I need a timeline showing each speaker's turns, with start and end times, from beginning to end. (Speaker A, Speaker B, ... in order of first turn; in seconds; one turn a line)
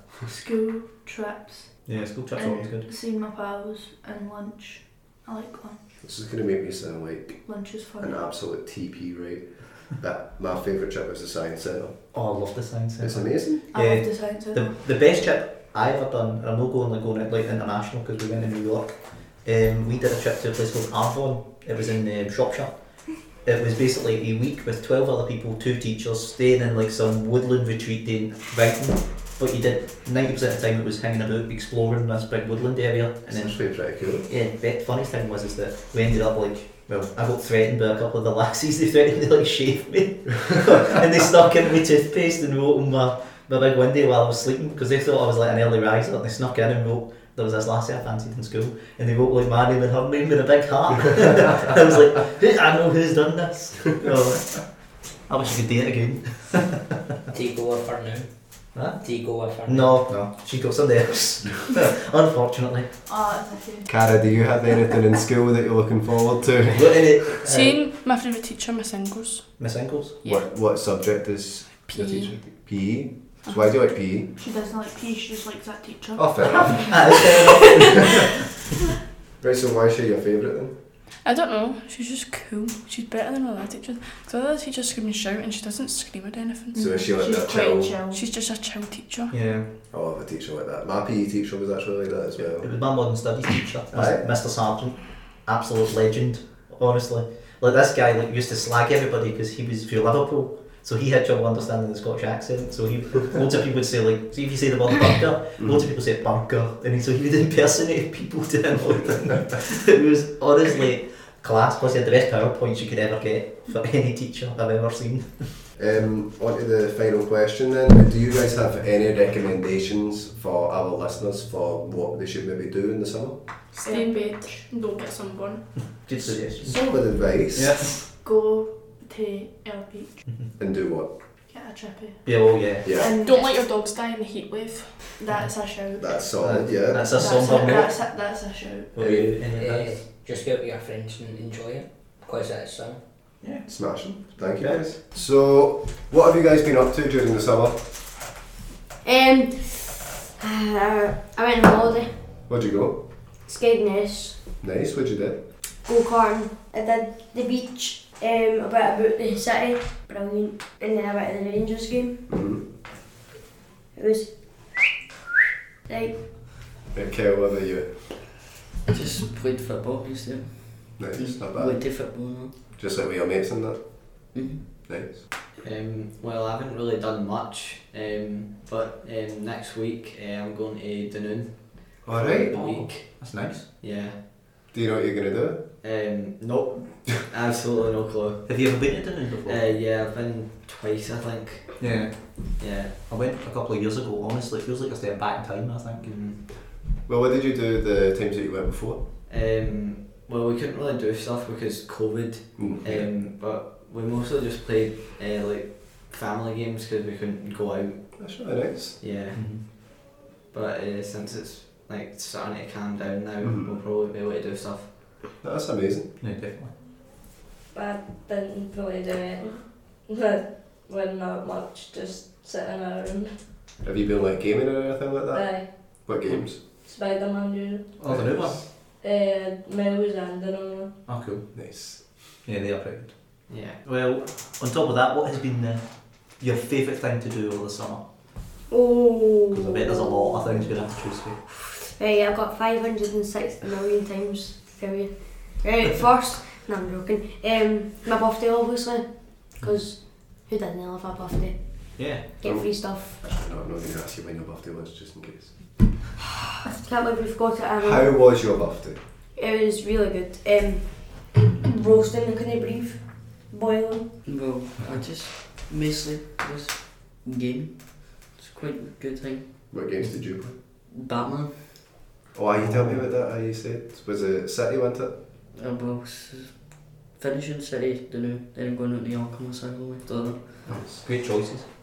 Speaker A: 0.2-5.8
Speaker B: 1.8-2.9
Speaker C: 6.0-12.1
Speaker A: 7.4-8.3
Speaker B: 12.1-56.8
Speaker C: 13.0-13.6
Speaker A: 13.7-14.8
Speaker C: 33.3-34.2
Speaker D: 57.3-60.1
Speaker B: 58.7-59.0
Speaker B: 59.6-62.9
Speaker A: 63.0-63.9
Speaker C: 63.9-66.9
Speaker B: 66.6-67.8
Speaker E: 67.4-69.6
Speaker B: 69.6-70.2
Speaker E: 70.2-70.5
Speaker C: 70.2-74.3
Speaker E: 71.8-72.5
Speaker A: 74.4-78.0
Speaker C: 76.2-77.0
Speaker B: 76.7-78.1
Speaker C: 79.4-80.7
Speaker E: 81.2-87.0
Speaker A: 86.7-88.2
Speaker C: 86.8-88.0
Speaker E: 88.1-89.3
Speaker B: 89.3-89.7
Speaker C: 89.9-92.7
Speaker B: 92.4-115.7
Speaker C: 93.9-94.2
Speaker C: 105.6-105.8
Speaker C: 115.8-123.4
Speaker E: 123.7-126.1
Speaker A: 123.8-124.7
Speaker B: 125.8-126.7
Speaker C: 126.6-127.9
Speaker B: 127.5-128.1
Speaker A: 128.2-130.2
Speaker C: 130.6-131.1
Speaker A: 131.5-133.7
Speaker B: 132.2-133.0
Speaker C: 132.8-133.1
Speaker E: 133.0-135.2
Speaker A: 135.2-136.3
Speaker C: 136.0-137.3
Speaker B: 136.4-138.0
Speaker A: 137.1-139.0
Speaker B: 138.9-140.1
Speaker C: 139.0-139.3
Speaker D: 139.5-143.1
Speaker B: 143.4-143.7
Speaker C: 143.7-147.9
Speaker B: 144.3-144.9
Speaker F: 149.0-152.2
Speaker C: 152.5-153.0
Speaker F: 153.4-154.4
Speaker C: 154.6-155.4
Speaker F: 155.8-162.2
Speaker C: 162.3-162.6
Speaker F: 163.9-164.8
Speaker F: 165.8-166.2
Speaker C: 166.9-168.2
Speaker G: 168.9-172.5
Speaker C: 171.0-172.0
Speaker C: 172.8-174.3
Speaker G: 174.3-174.7
Speaker C: 174.8-175.2
Speaker H: 175.6-183.2
Speaker C: 182.0-182.9
Speaker B: 182.7-183.7
Speaker H: 183.8-184.2
Speaker C: 184.7-185.6
Speaker H: 185.8-188.8
Speaker B: 188.5-189.8
Speaker H: 189.4-191.8
Speaker B: 191.8-196.1
Speaker H: 192.6-192.9
Speaker H: 196.0-196.4
Speaker C: 197.1-199.0
Speaker H: 199.3-208.2
Speaker C: 202.6-203.1
Speaker C: 208.2-209.0
Speaker H: 209.0-214.9
Speaker B: 209.3-209.6
Speaker C: 213.4-213.7
Speaker C: 215.4-216.1
Speaker B: 216.2-216.7
Speaker I: 217.7-223.4
Speaker C: 223.8-226.6
Speaker I: 225.3-225.7
Speaker I: 226.7-227.8
Speaker B: 228.0-228.6
Speaker C: 228.0-228.6
Speaker I: 228.7-230.9
Speaker B: 231.1-238.1
Speaker C: 231.5-232.3
Speaker H: 233.5-233.8
Speaker F: 238.7-240.6
Speaker B: 239.5-241.4
Speaker F: 241.6-253.2
Speaker B: 251.9-252.3
Speaker C: 252.4-255.8
Speaker F: 256.8-258.1
Speaker C: 257.8-259.0
Speaker F: 259.4-264.2
Speaker G: 264.2-269.6
Speaker C: 269.7-270.5
Speaker G: 270.9-271.9
Speaker C: 272.3-275.1
Speaker B: 272.6-273.0
Speaker G: 275.5-280.7
Speaker B: 280.6-281.7
Speaker C: 280.7-281.0